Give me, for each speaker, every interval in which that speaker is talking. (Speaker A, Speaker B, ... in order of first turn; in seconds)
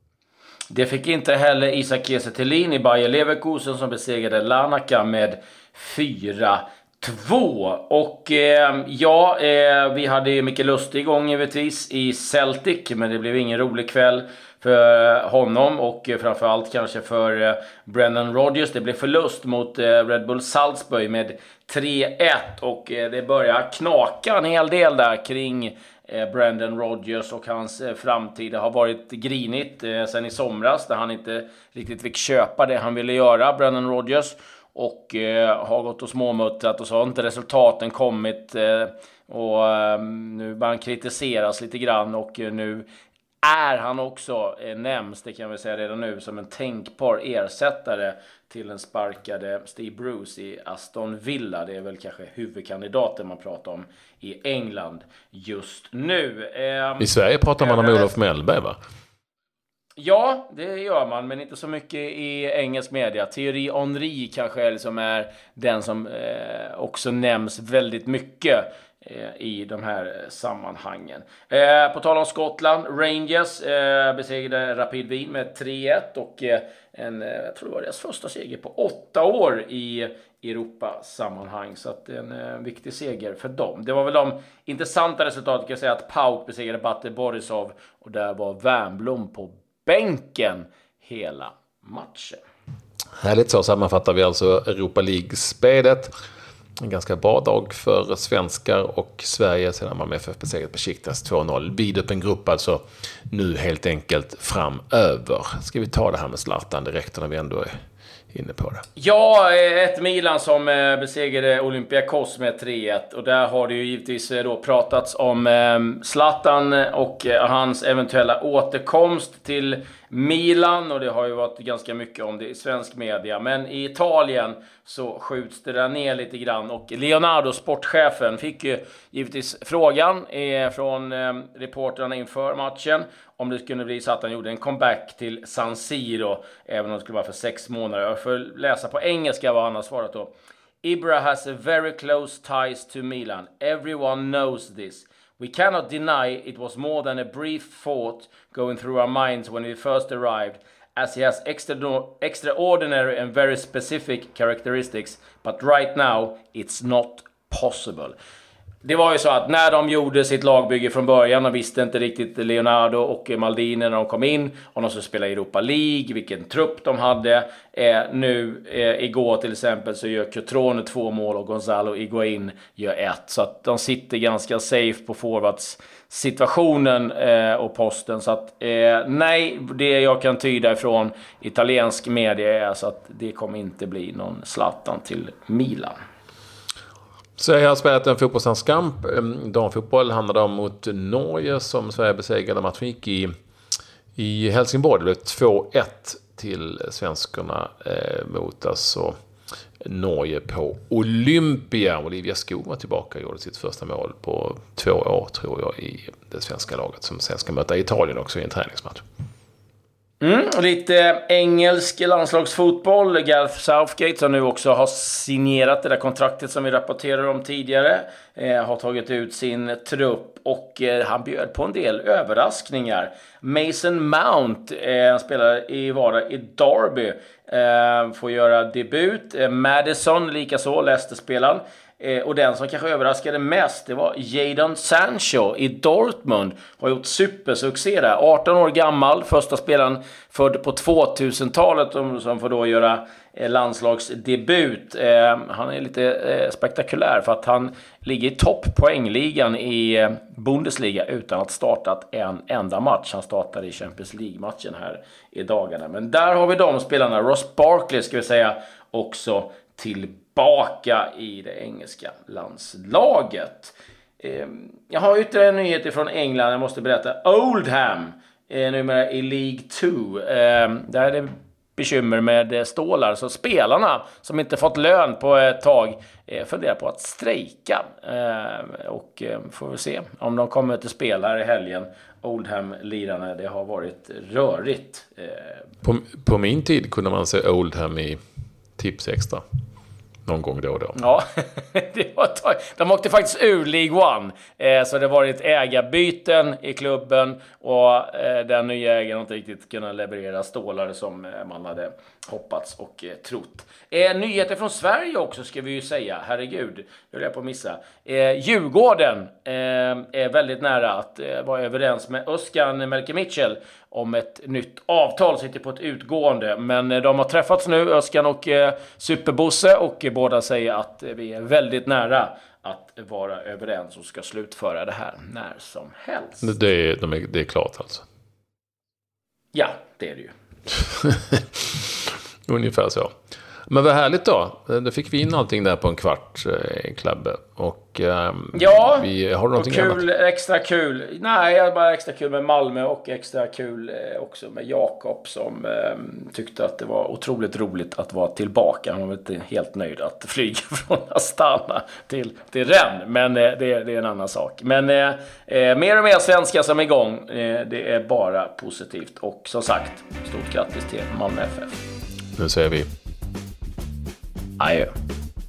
Speaker A: 0.7-42.9, 43.4-57.1, 57.6-58.1, 60.0-92.4, 109.0-158.2, 158.8-186.0, 210.2-285.7, 291.0-326.5, 329.5-330.3, 338.5-361.8, 364.6-364.9
Speaker B: 57.0-58.8, 93.2-96.1, 96.8-107.7, 108.3-108.8, 187.4-193.3, 194.2-199.2, 199.8-209.0, 285.8-288.2, 288.8-289.4, 290.3-291.0, 326.4-328.0, 330.9-333.1, 333.7-340.0, 362.4-362.9